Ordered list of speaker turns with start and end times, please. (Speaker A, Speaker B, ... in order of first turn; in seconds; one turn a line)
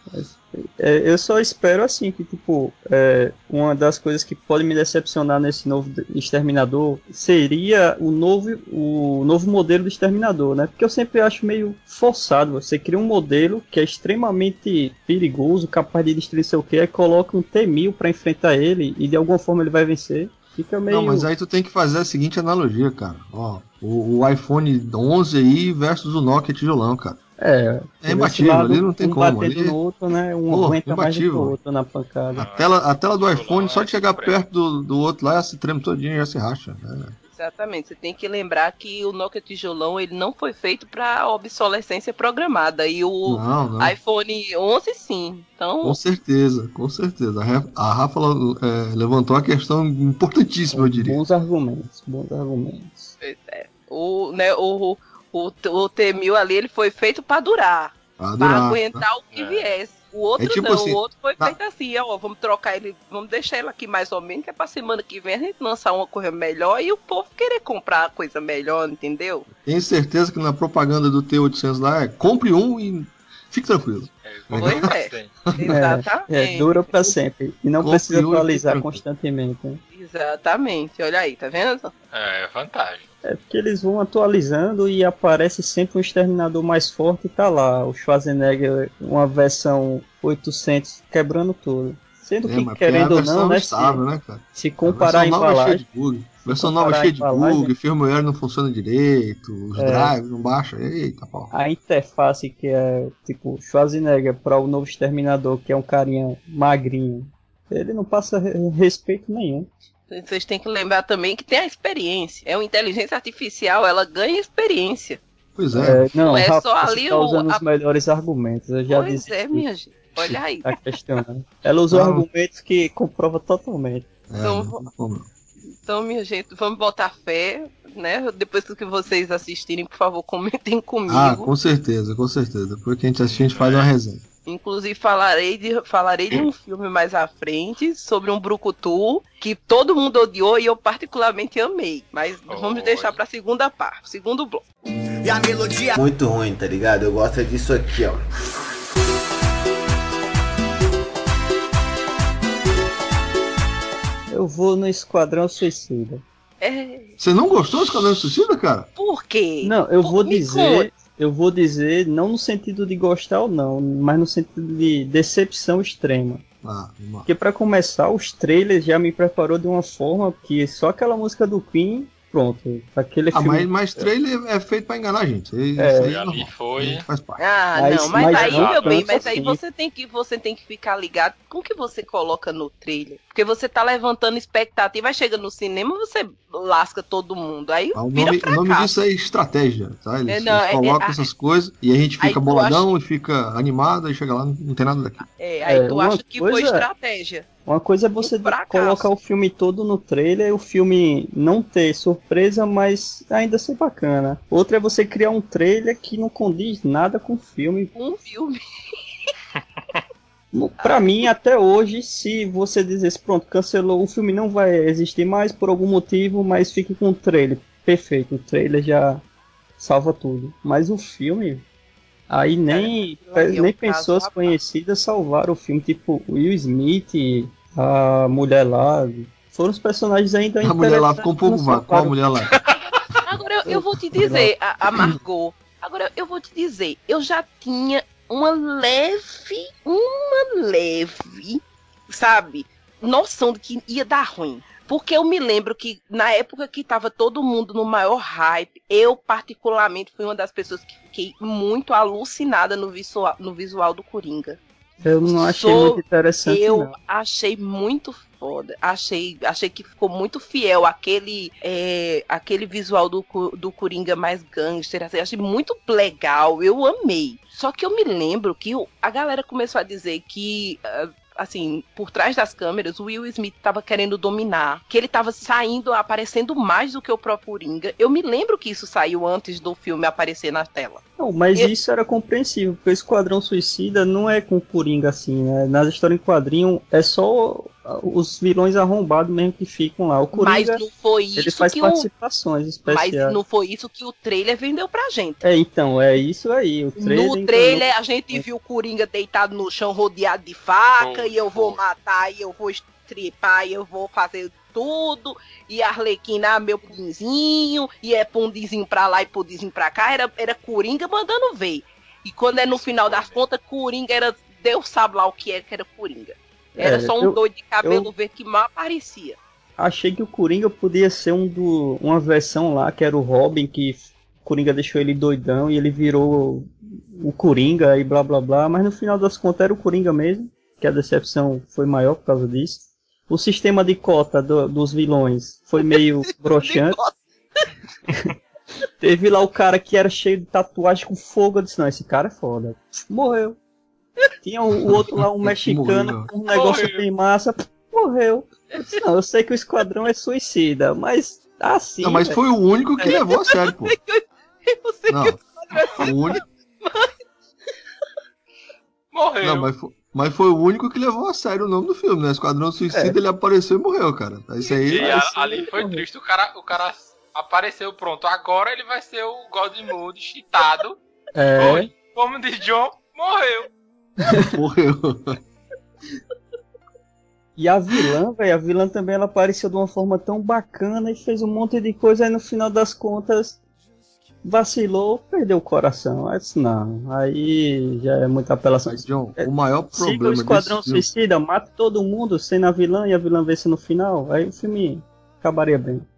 Speaker A: 0.1-21.3
Speaker B: 20.9-27.2
Speaker A: 27.4-32.4
Speaker B: 28.0-29.8
Speaker B: 30.5-31.5
Speaker B: 32.3-37.1
Speaker C: 32.4-34.4
Speaker D: 37.3-46.0
Speaker B: 43.2-43.9
Speaker B: 45.8-51.2
Speaker A: 50.7-53.1
Speaker D: 53.2-69.5
Speaker B: 58.2-59.0
Speaker C: 59.3-59.7
Speaker B: 60.4-61.5
Speaker B: 69.6-74.9
Speaker C: 74.2-75.4
Speaker D: 74.6-76.9
Speaker A: 75.7-79.8
Speaker B: 77.8-79.0
Speaker D: 79.9-81.9
Speaker C: 82.1-83.0
Speaker A: 83.2-94.0
Speaker B: 92.4-101.5
Speaker A: 94.5-95.8
Speaker A: 96.4-97.7
Speaker A: 99.8-100.1
Speaker A: 101.5-109.7
Speaker D: 110.1-115.2
Speaker B: 115.5-116.1
Speaker A: 115.7-119.7
Speaker D: 116.2-117.6
Speaker D: 118.9-120.7
Speaker A: 120.6-124.1
Speaker B: 121.9-122.2
Speaker B: 124.3-125.3
Speaker D: 124.4-124.8
Speaker D: 125.8-131.5
Speaker B: 131.1-134.2
Speaker C: 133.2-133.9
Speaker D: 134.4-144.6
Speaker C: 142.5-143.2
Speaker E: 145.2-148.2
Speaker A: 154.3-156.2
Speaker D: 156.6-157.2
Speaker B: 157.2-158.9
Speaker D: 158.9-160.9
Speaker A: 159.6-166.4
Speaker B: 166.6-167.3
Speaker A: 167.2-174.1
Speaker B: 173.3-177.4
Speaker A: 175.8-176.1
Speaker C: 176.0-177.1
Speaker D: 177.4-188.9
Speaker A: 177.8-179.6
Speaker C: 178.1-179.3
Speaker B: 187.9-195.2
Speaker D: 190.3-191.3
Speaker D: 192.2-192.9
Speaker D: 195.4-197.5
Speaker A: 195.6-196.8
Speaker A: 197.7-207.9
Speaker D: 198.2-199.1
Speaker D: 207.9-208.6
Speaker C: 209.6-209.9
Speaker A: 210.5-219.2
Speaker D: 210.8-211.1
Speaker A: 219.8-221.6
Speaker A: 222.3-232.2
Speaker D: 222.7-224.6
Speaker B: 230.6-232.5
Speaker C: 232.5-233.0
Speaker D: 232.7-254.6
Speaker A: 233.7-234.5
Speaker A: 255.0-256.9
Speaker D: 255.2-281.0
Speaker A: 281.2-290.8
Speaker D: 290.3-292.1
Speaker A: 291.4-293.4
Speaker D: 292.9-295.4
Speaker A: 295.4-298.4
Speaker D: 297.0-319.4
Speaker C: 301.0-301.8
Speaker C: 313.0-313.4
Speaker A: 316.8-318.1
Speaker A: 319.8-337.0
Speaker D: 335.8-337.6
Speaker A: 339.0-343.6
Speaker A: 344.4-352.4
Speaker B: 344.8-346.3
Speaker C: 346.5-347.0
Speaker B: 352.0-354.0
Speaker D: 353.0-357.2
Speaker B: 355.1-355.4
Speaker B: 355.9-356.4
Speaker C: 359.1-359.7
Speaker B: 359.4-365.2
Speaker C: 364.9-371.0
Speaker A: 364.9-366.0
Speaker A: 371.3-371.9
Speaker C: 371.6-373.7
Speaker A: 374.2-374.6
Speaker B: 374.4-375.4
Speaker A: 377.6-383.6
Speaker A: 384.4-396.0
Speaker B: 388.8-391.1